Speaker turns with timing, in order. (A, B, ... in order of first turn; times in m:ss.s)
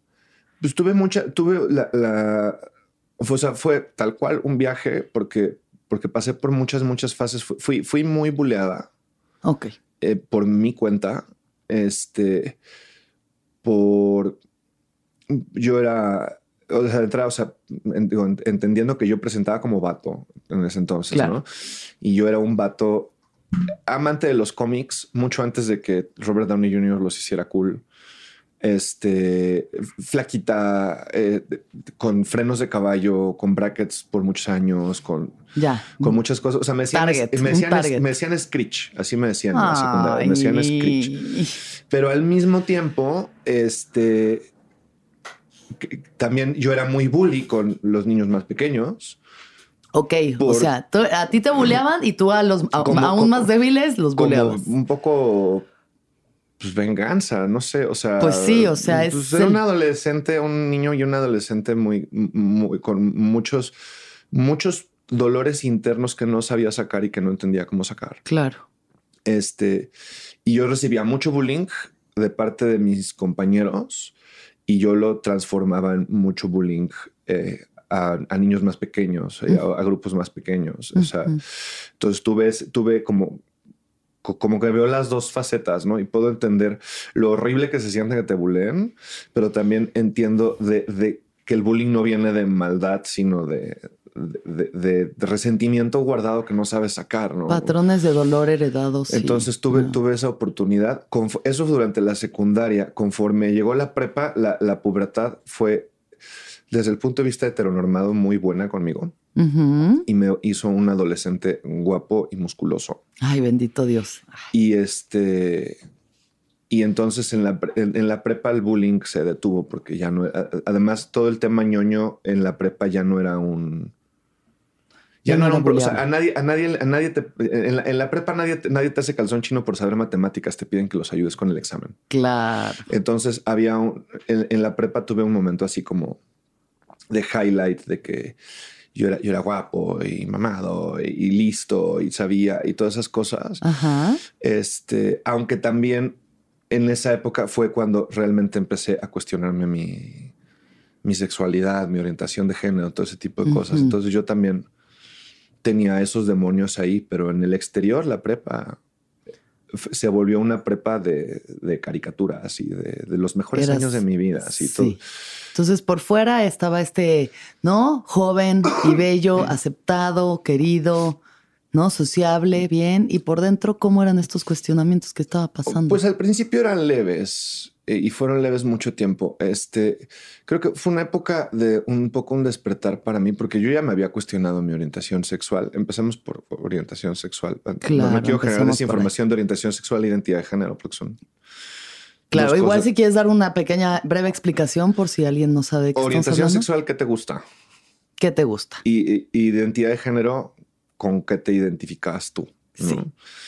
0:00.6-0:02.6 A
0:03.2-0:08.9 A
0:09.4-0:09.7 B
0:10.0-0:12.6 A
0:13.6-0:14.4 A
0:15.3-0:23.1 A
0:21.1-0:21.4 B
0:23.9-0:27.8 A
0:28.6-0:35.4 A
0:35.6-0:36.2 B
0:36.0-0:41.1 A
0:36.9-0:38.1 B
0:39.5-0:41.6 B
0:41.9-0:44.5 A
0:45.8-0:49.2 A
0:49.9-0:54.7 B
0:50.4-0:50.7 A
0:52.7-0:53.5 A
0:54.2-0:55.7 A
0:56.6-1:03.8 A
0:58.2-0:59.6 B
1:04.3-1:08.2 A
1:08.3-1:08.6 B
1:09.2-1:09.9 A
1:10.4-1:14.1 A
1:14.7-1:23.4 A
1:21.0-1:21.4 B
1:24.2-1:37.8 A
1:37.5-1:40.0 B
1:39.1-1:45.9 A
1:46.7-1:49.2 A
1:49.4-1:50.1 B
1:50.1-1:53.0 A
1:53.2-1:54.3 B
1:54.5-1:55.8 A
1:56.7-2:03.9 A
2:05.2-2:12.0 A
2:05.3-2:06.0 B
2:12.1-2:12.9 B
2:12.9-2:16.2 A
2:17.1-2:18.4 A
2:18.9-2:23.6 A
2:23.6-2:24.2 B
2:24.4-2:26.2 A
2:26.7-2:30.3 A
2:31.0-2:34.7 A
2:33.5-2:34.0 B
2:35.6-2:38.8 A
2:39.7-2:45.0 A
2:43.5-2:45.0 B
2:45.6-2:51.2 B
2:48.8-2:49.4 A
2:51.7-2:56.0 B
2:55.7-3:11.2 A
3:07.8-3:09.1 B
3:12.3-3:12.9 A
3:12.3-3:16.7 B
3:16.0-3:17.4 A
3:18.2-3:18.8 B
3:18.8-3:23.1 A